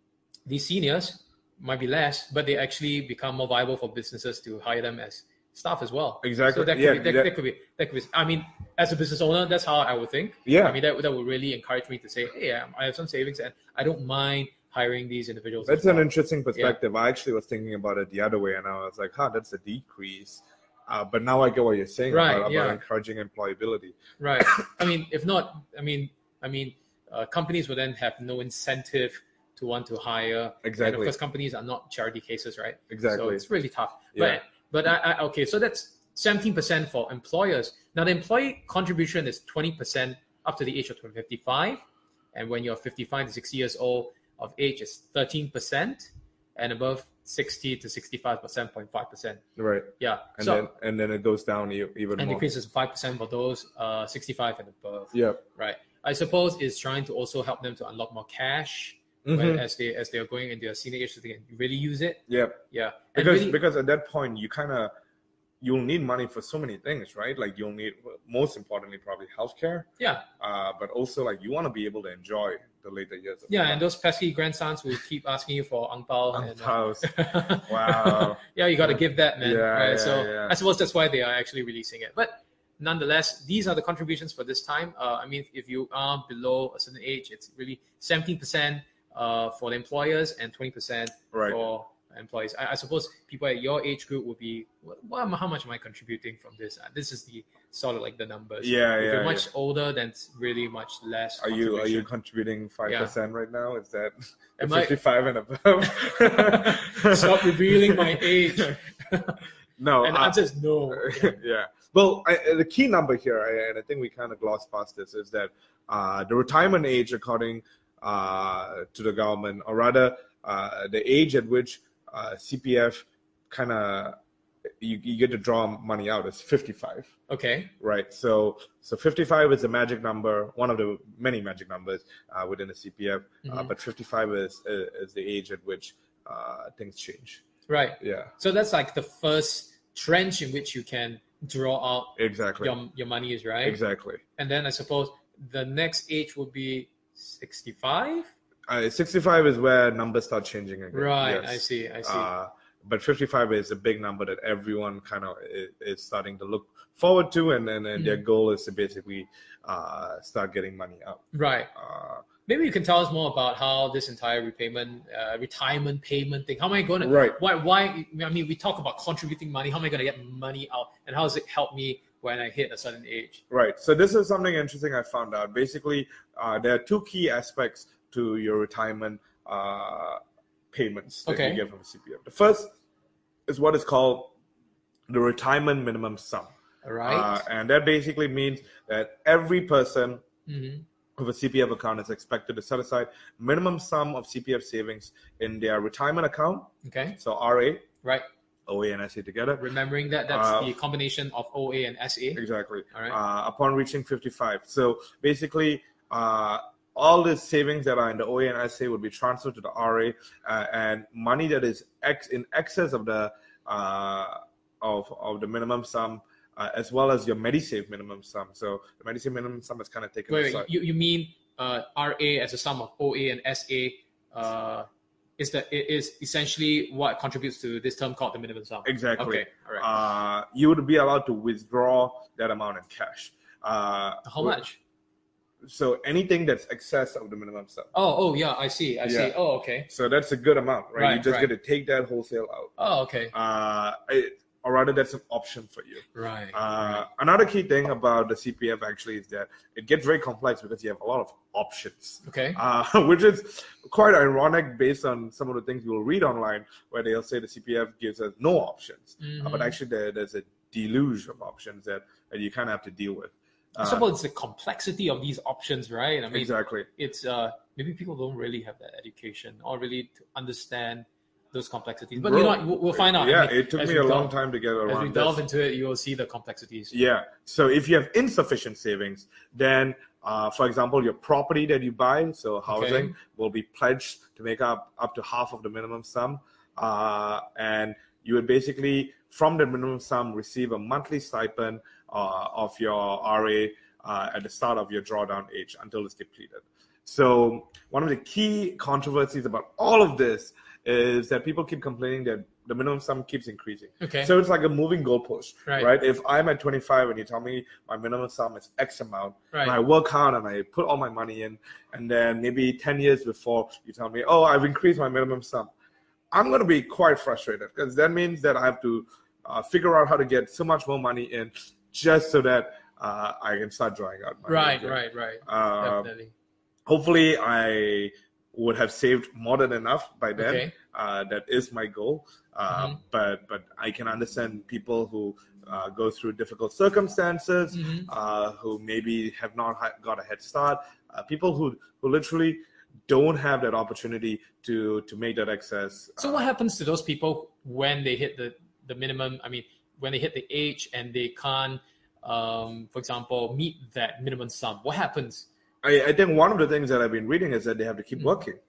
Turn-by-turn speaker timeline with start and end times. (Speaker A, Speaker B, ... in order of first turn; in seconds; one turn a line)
Speaker A: 0.5-16.8
Speaker B: 6.2-7.3
Speaker B: 10.4-10.8
Speaker B: 15.6-23.9
Speaker A: 22.1-22.8
Speaker A: 24.2-49.4
Speaker B: 30.6-31.1
Speaker B: 32.9-33.4
Speaker B: 34.1-34.4
Speaker B: 49.6-52.4
Speaker A: 50.0-50.7
Speaker A: 52.1-63.6
Speaker B: 55.1-55.4
Speaker B: 59.2-59.6
Speaker B: 62.3-62.6
Speaker B: 63.1-64.9
Speaker B: 65.6-69.9
Speaker A: 70.0-70.2
Speaker B: 70.4-73.8
Speaker A: 73.5-102.1
Speaker B: 76.3-80.6
Speaker B: 91.3-91.6
Speaker B: 98.6-99.5
Speaker B: 101.4-108.8
Speaker A: 102.8-103.1
Speaker A: 104.6-105.0
Speaker A: 106.2-109.4
Speaker B: 109.8-124.2
Speaker A: 110.0-111.4
Speaker B: 124.8-127.1
Speaker A: 127.3-127.7
Speaker B: 127.8-137.4
Speaker A: 133.4-133.7
Speaker A: 137.7-143.8
Speaker B: 138.0-138.3
Speaker B: 142.2-142.7
Speaker B: 143.6-144.2
Speaker A: 144.4-148.3
Speaker B: 148.7-162.2
Speaker A: 150.9-152.3
Speaker A: 157.9-158.2
Speaker A: 161.3-161.7
Speaker A: 162.4-173.4
Speaker B: 167.0-167.4
Speaker B: 173.5-180.2
Speaker B: 180.7-182.7
Speaker A: 181.2-181.6
Speaker B: 183.5-184.3
Speaker B: 185.1-186.5
Speaker A: 186.8-187.4
Speaker B: 187.0-190.2
Speaker A: 190.5-190.8
Speaker B: 191.2-197.8
Speaker A: 196.8-197.2
Speaker B: 198.7-199.6
Speaker A: 199.6-203.2
Speaker B: 200.3-200.7
Speaker B: 202.3-220.7
Speaker A: 220.3-229.9
Speaker B: 228.8-234.6
Speaker A: 234.2-234.8
Speaker B: 235.6-237.9
Speaker A: 237.9-239.9
Speaker B: 239.0-239.3
Speaker B: 239.9-242.7
Speaker A: 240.9-241.5
Speaker A: 242.8-243.3
Speaker B: 243.3-264.1
Speaker A: 246.1-247.0
Speaker A: 252.2-252.6
Speaker A: 259.2-259.8
Speaker A: 263.8-274.3
Speaker B: 266.3-266.9
Speaker B: 272.2-275.4
Speaker A: 274.9-276.9
Speaker B: 276.9-315.7
Speaker A: 282.7-283.1
Speaker A: 304.0-304.3
Speaker A: 305.6-305.9
Speaker A: 309.5-309.8
Speaker B: 316.3-326.1
Speaker A: 324.5-326.3
Speaker B: 326.9-346.4
Speaker A: 330.4-330.7
Speaker A: 332.7-333.0
Speaker A: 337.7-338.1
Speaker A: 346.2-355.5
Speaker B: 355.8-358.6